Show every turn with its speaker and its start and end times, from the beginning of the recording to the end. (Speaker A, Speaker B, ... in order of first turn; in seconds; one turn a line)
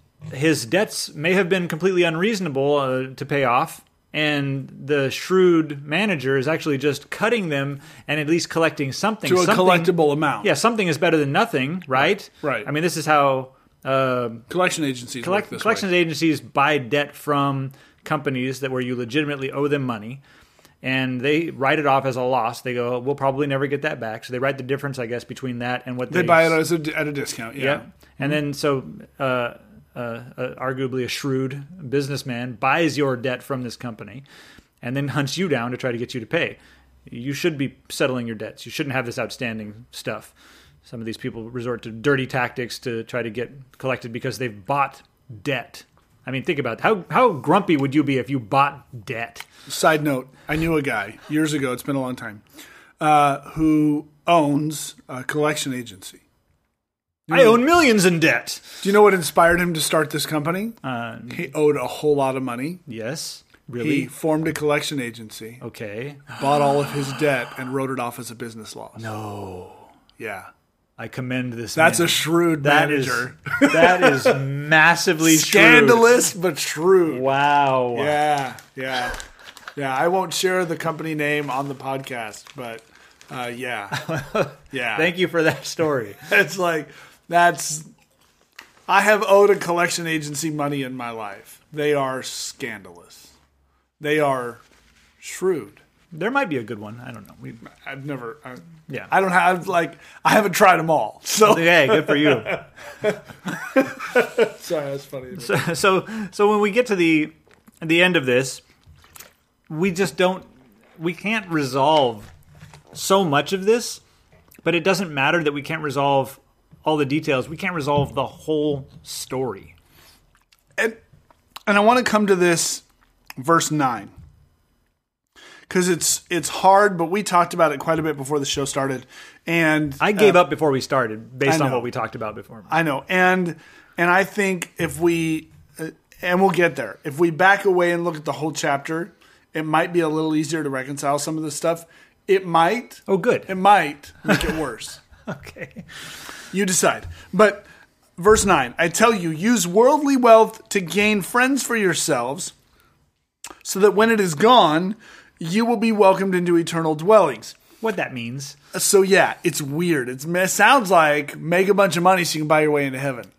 Speaker A: 0.3-14.5
Speaker B: 9.3-10.5
Speaker B: 12.0-12.7
Speaker B: 14.5-15.9
Speaker A: 15.2-20.2
Speaker A: 20.8-26.6
Speaker B: 26.1-27.9
Speaker A: 27.6-34.2
Speaker A: 34.8-40.3
Speaker A: 40.9-49.5
Speaker B: 49.7-52.4
Speaker B: 53.0-56.2
Speaker B: 57.3-57.6
Speaker A: 57.3-58.8
Speaker B: 58.8-62.8
Speaker A: 60.8-61.5
Speaker A: 62.9-64.1
Speaker B: 63.8-65.6
Speaker A: 65.6-66.4
Speaker B: 66.3-69.1
Speaker A: 69.0-69.9
Speaker B: 70.2-70.5
Speaker A: 71.0-76.2
Speaker B: 71.8-74.4
Speaker B: 75.2-77.3
Speaker A: 77.1-78.2
Speaker B: 77.9-79.2
Speaker B: 79.8-84.0
Speaker A: 83.9-86.2
Speaker B: 84.7-85.1
Speaker B: 86.3-87.9
Speaker B: 88.9-93.3
Speaker B: 94.0-94.6
Speaker B: 95.2-95.8
Speaker A: 96.1-97.7
Speaker B: 97.6-105.6
Speaker A: 101.4-102.6
Speaker A: 105.4-108.6
Speaker A: 109.7-112.3
Speaker A: 112.9-114.0
Speaker A: 114.6-119.8
Speaker B: 121.7-122.8
Speaker B: 123.4-124.1
Speaker B: 125.7-130.4
Speaker A: 130.0-132.7
Speaker B: 131.5-131.9
Speaker B: 132.7-145.0
Speaker A: 143.1-143.5
Speaker A: 145.3-145.9
Speaker B: 146.5-147.7
Speaker B: 148.2-152.5
Speaker B: 153.6-157.6
Speaker A: 157.8-158.6
Speaker B: 158.7-163.3